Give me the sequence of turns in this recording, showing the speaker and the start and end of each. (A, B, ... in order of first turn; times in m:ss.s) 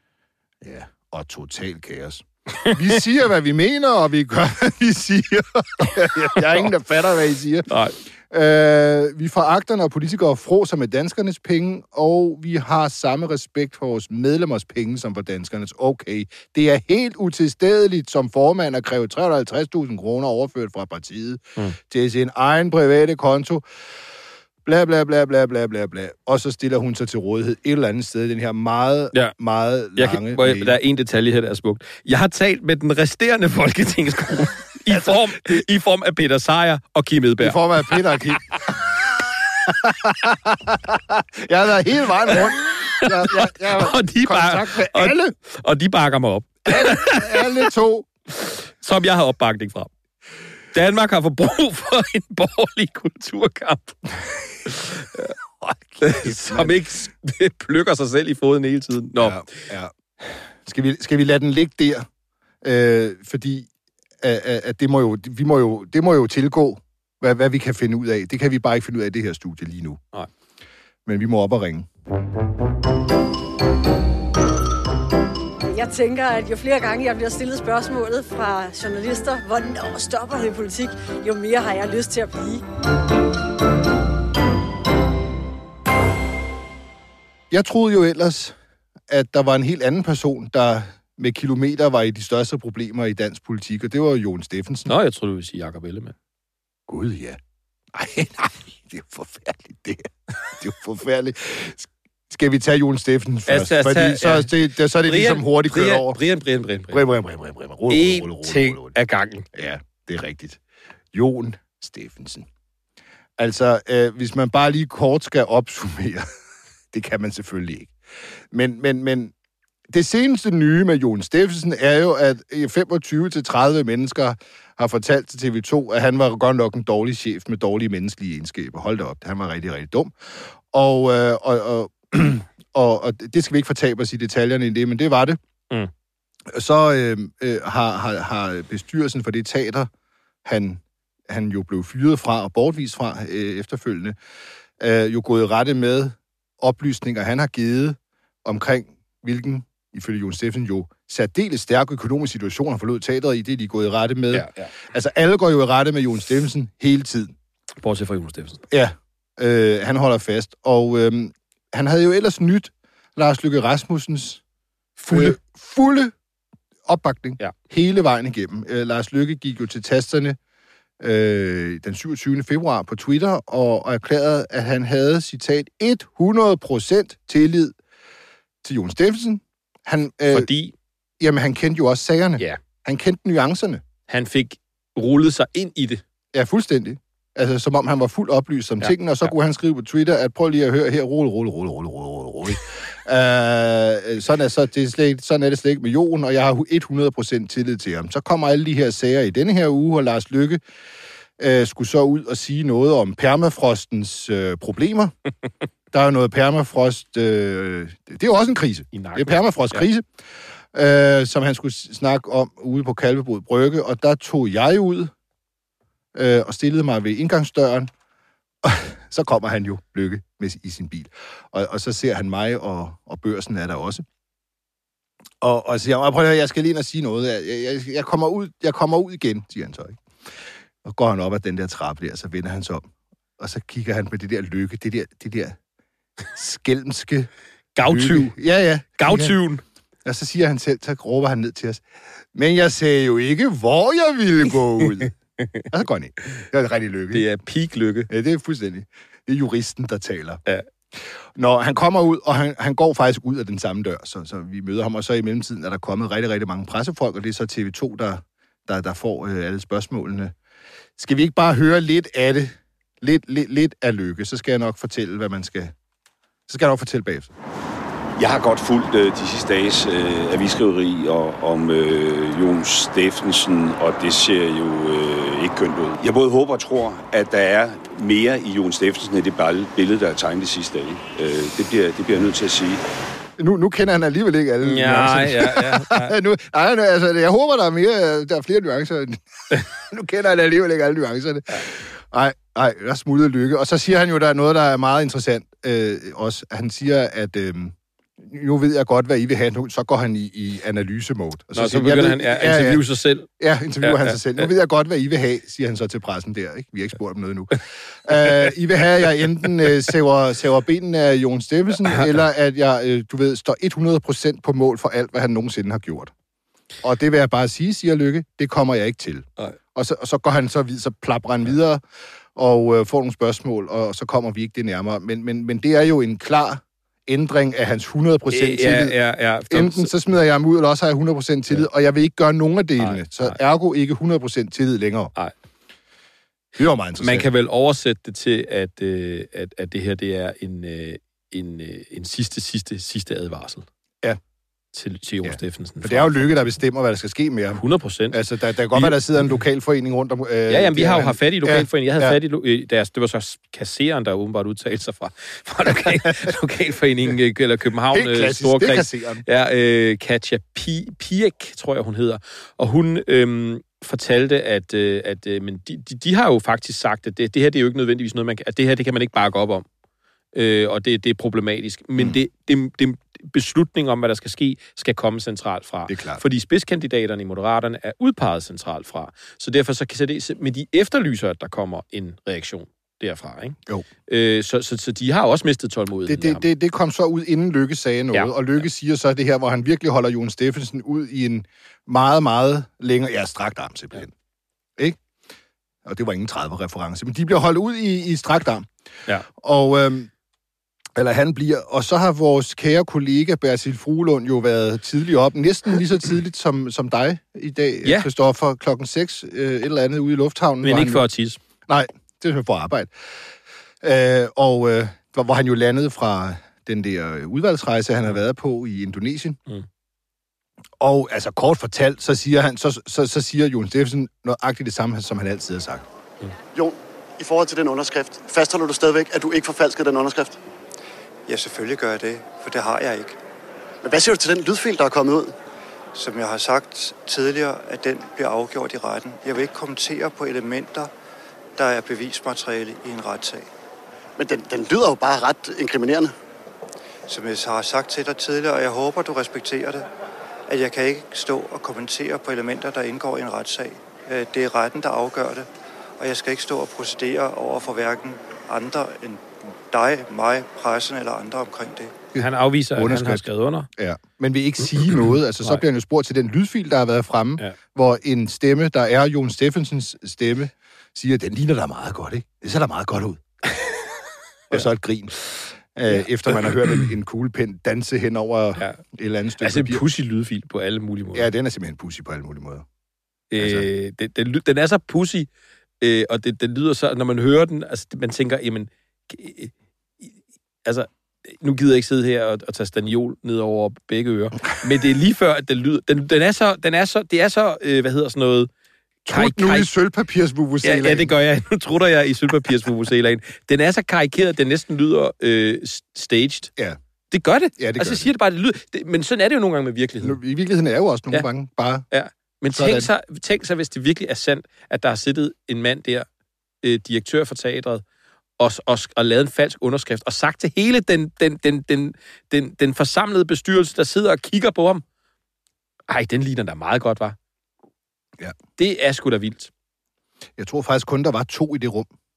0:00.6-0:07.7 A
0:06.4-0:06.7 B
0:07.7-0:08.0 B
0:08.2-0:23.6 A
0:24.6-0:30.8 A
0:30.0-0:38.8 B
0:37.4-0:38.5 A
0:39.7-0:45.3 A
0:42.3-0:47.7 B
0:46.7-0:48.1 A
0:48.3-0:49.9 B
0:50.7-0:54.0 B
0:54.7-0:55.3 B
0:55.6-0:56.8 A
0:56.0-0:59.5 B
0:59.2-1:02.1 A
1:02.6-1:03.7 A
1:04.2-1:10.0 A
1:11.1-1:11.9 A
1:15.7-1:22.6 C
1:27.5-1:28.6 A
1:29.1-1:34.9 A
1:34.9-1:36.1 B
1:36.9-1:37.4 A
1:37.9-1:46.2 A
1:43.5-1:47.0 B
1:46.9-1:49.0 A
1:47.9-1:49.5 B
1:49.5-1:50.6 A
1:51.1-1:52.5 A
1:53.4-1:56.2 A
1:56.9-1:57.9 A
1:58.5-1:59.3 A
1:59.9-2:15.4 A
2:16.5-2:19.9 A
2:20.4-2:24.2 A
2:24.8-2:37.3 A
2:34.3-2:34.7 B
2:37.8-2:38.7 B
2:38.7-2:44.4 A
2:45.0-2:45.4 B
2:45.1-2:46.1 A
2:46.9-2:50.4 A
2:51.0-2:57.8 A
2:58.6-3:00.5 A
3:00.3-3:00.8 B
3:01.2-3:03.8 A
3:04.1-3:06.0 B
3:06.4-3:20.6 A
3:08.8-3:09.3 B
3:21.4-3:25.1 A
3:25.9-3:30.0 A
3:28.9-3:29.8 B
3:30.7-3:35.1 A
3:36.2-3:37.9 A
3:38.6-3:44.0 A
3:45.4-3:50.0 A
3:50.8-3:52.9 A
3:53.4-3:55.6 A
3:56.3-3:57.3 A
3:57.8-3:58.4 B
3:57.8-3:59.4 A
3:59.0-3:59.6 B
4:00.0-4:01.8 A
4:02.3-4:05.1 A
4:05.0-4:05.7 B
4:05.7-4:07.2 A
4:07.1-4:08.1 B
4:08.1-4:10.4 A
4:11.0-4:20.3 A
4:21.0-4:25.7 A
4:26.5-4:27.3 A
4:28.2-4:42.8 D
4:43.4-5:02.8 A
4:44.6-4:46.2 B
5:01.5-5:03.3 B
5:03.4-5:16.1 A
5:03.8-5:04.5 B
5:16.8-5:21.8 A
5:22.4-5:35.1 A
5:28.3-5:29.9 B
5:32.8-5:33.4 B
5:36.6-5:37.3 A
5:37.0-5:43.7 B
5:44.7-5:46.5 B
5:45.2-5:52.2 A
5:47.5-5:48.2 B
5:48.7-5:49.0 B
5:50.5-6:09.7 B
5:57.9-5:59.2 A
6:10.3-6:26.4 B
6:15.9-6:16.2 A
6:26.1-6:34.1 A
6:28.1-6:28.7 B
6:35.8-6:38.7 A
6:39.4-6:40.1 A
6:41.0-6:51.0 A
6:47.8-6:48.1 B
6:50.6-6:51.4 B
6:51.7-6:52.9 A
6:53.8-6:59.4 A
7:00.8-7:05.8 A
7:06.5-7:10.4 E
7:11.3-7:13.2 F
7:13.8-7:15.3 E
7:16.0-7:20.9 F
7:21.6-7:23.5 F
7:24.2-7:26.1 E
7:27.1-7:29.9 F
7:30.5-7:35.5 F
7:36.0-7:42.0 F
7:42.2-7:43.2 A
7:42.2-7:43.7 B
7:43.8-7:53.2 A
7:54.5-7:59.8 A
7:55.9-7:56.8 B
7:58.6-7:58.8 B
7:59.4-8:01.3 B
8:01.2-8:02.6 A
8:03.3-8:05.3 B
8:03.4-8:03.7 A
8:05.8-8:10.1 B
8:10.6-8:18.5 B
8:19.1-8:21.1 A
8:19.1-8:19.7 B
8:20.6-8:26.5 B
8:27.1-8:30.2 B
8:27.6-8:28.1 A
8:30.0-8:31.8 A
8:31.9-8:36.1 B
8:32.5-8:32.9 A
8:36.6-8:37.8 B
8:38.4-8:44.8 B
8:45.9-8:47.2 B
8:48.6-8:49.5 B
8:50.4-8:51.9 A